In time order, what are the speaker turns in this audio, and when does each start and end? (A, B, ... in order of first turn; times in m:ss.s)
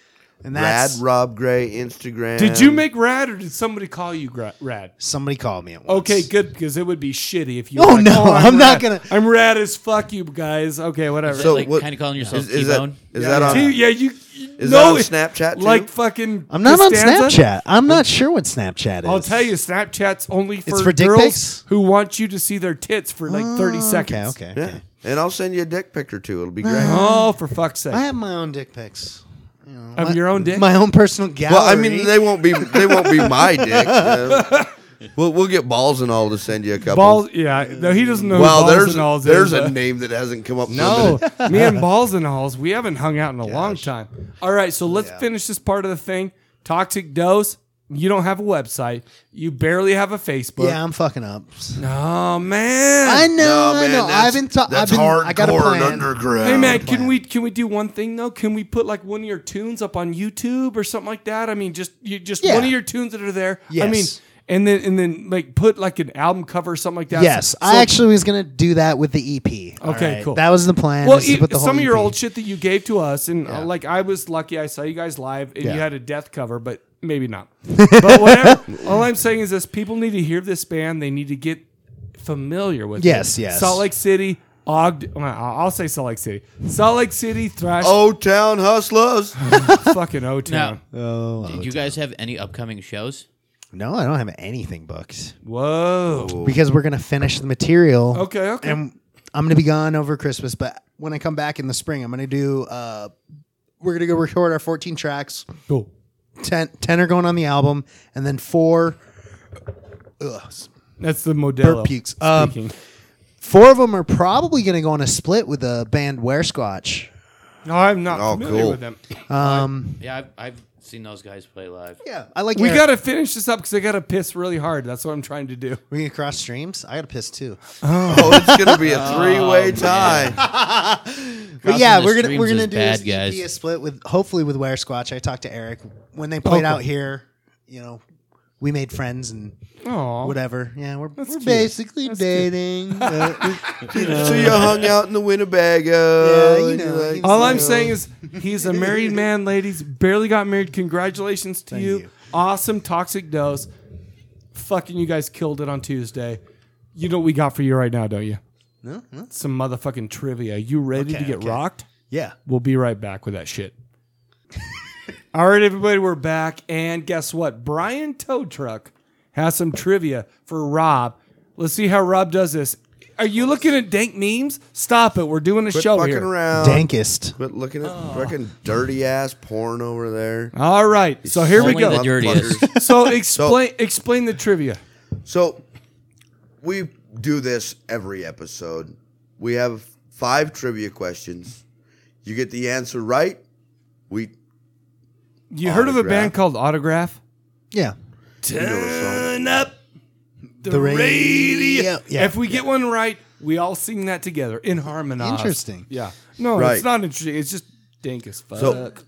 0:00.4-0:01.0 A
0:00.5-0:02.8 B
0:02.4-0:04.9 C
0:05.0-0:06.3 A
0:05.9-0:11.6 C
0:07.8-0:09.2 A
0:11.3-0:13.0 D
0:11.4-0:13.9 B
0:13.1-0:13.7 A
0:13.2-0:18.0 C
0:14.6-0:15.9 B
0:16.5-0:19.5 A
0:19.0-0:24.3 C
0:20.6-0:21.6 A
0:23.3-0:24.8 A
0:24.5-0:27.1 B
0:26.6-0:27.3 A
0:26.8-0:28.0 C
0:27.9-0:34.3 A
0:30.0-0:30.7 C
0:31.5-0:34.6 B
0:34.3-0:34.7 C
0:35.1-0:37.3 B
0:36.9-0:39.8 C
0:37.6-0:38.6 A
0:38.3-0:41.4 B
0:40.7-0:50.8 C
0:41.0-0:41.8 A
0:43.4-0:43.9 A
0:44.8-0:45.2 A
0:50.6-0:51.8 A
0:51.8-0:53.3 C
0:53.0-0:57.2 A
0:53.4-0:56.9 B
0:56.4-1:08.0 C
1:02.4-1:02.8 A
1:03.7-1:04.2 A
1:07.1-1:12.2 A
1:09.8-1:10.4 C
1:11.0-1:21.6 C
1:15.6-1:15.8 A
1:17.7-1:18.6 A
1:22.2-1:28.0 C
1:23.0-1:23.8 A
1:27.8-1:29.4 B
1:29.4-1:30.8 C
1:29.5-1:29.9 A
1:30.5-1:30.8 D
1:30.9-1:32.0 A
1:31.4-1:33.2 D
1:33.7-1:35.3 A
1:35.4-1:36.4 C
1:36.1-1:36.6 B
1:36.4-1:43.1 A
1:38.1-1:38.8 C
1:43.8-1:45.5 A
1:46.4-1:49.0 A
1:50.2-1:50.7 A
1:51.0-1:52.7 C
1:51.6-1:52.6 A
1:53.4-1:57.1 A
1:57.6-1:59.0 C
1:58.1-1:58.8 B
1:59.3-2:00.0 A
1:59.4-2:02.0 D
2:02.0-2:02.8 A
2:02.6-2:05.8 C
2:05.9-2:18.0 A
2:07.8-2:08.5 C
2:08.1-2:10.4 B
2:08.8-2:10.4 D
2:11.6-2:13.4 D
2:16.4-2:16.8 C
2:18.6-2:19.6 A
2:19.8-2:20.4 C
2:20.2-2:24.9 A
2:21.2-2:24.7 C
2:23.9-2:28.0 B
2:26.2-2:28.0 A
2:27.2-2:33.7 C
2:31.7-2:32.1 A
2:34.5-2:36.4 C
2:36.9-2:38.4 C
2:38.8-2:39.3 A
2:39.3-2:41.8 C
2:40.9-2:42.4 A
2:42.4-2:43.7 C
2:45.3-2:56.3 C
2:55.7-3:00.5 B
2:56.5-2:57.4 A
2:57.8-2:58.3 C
3:00.5-3:04.8 C
3:01.2-3:03.6 B
3:01.5-3:02.7 D
3:05.2-3:05.6 B
3:06.6-3:11.6 B
3:12.2-3:13.4 B
3:15.5-3:17.2 C
3:15.6-3:16.3 B
3:18.4-3:19.7 C
3:18.5-3:19.4 B
3:20.6-3:22.6 A
3:20.6-3:29.0 C
3:25.2-3:25.9 A
3:26.5-3:26.9 B
3:28.6-3:28.8 B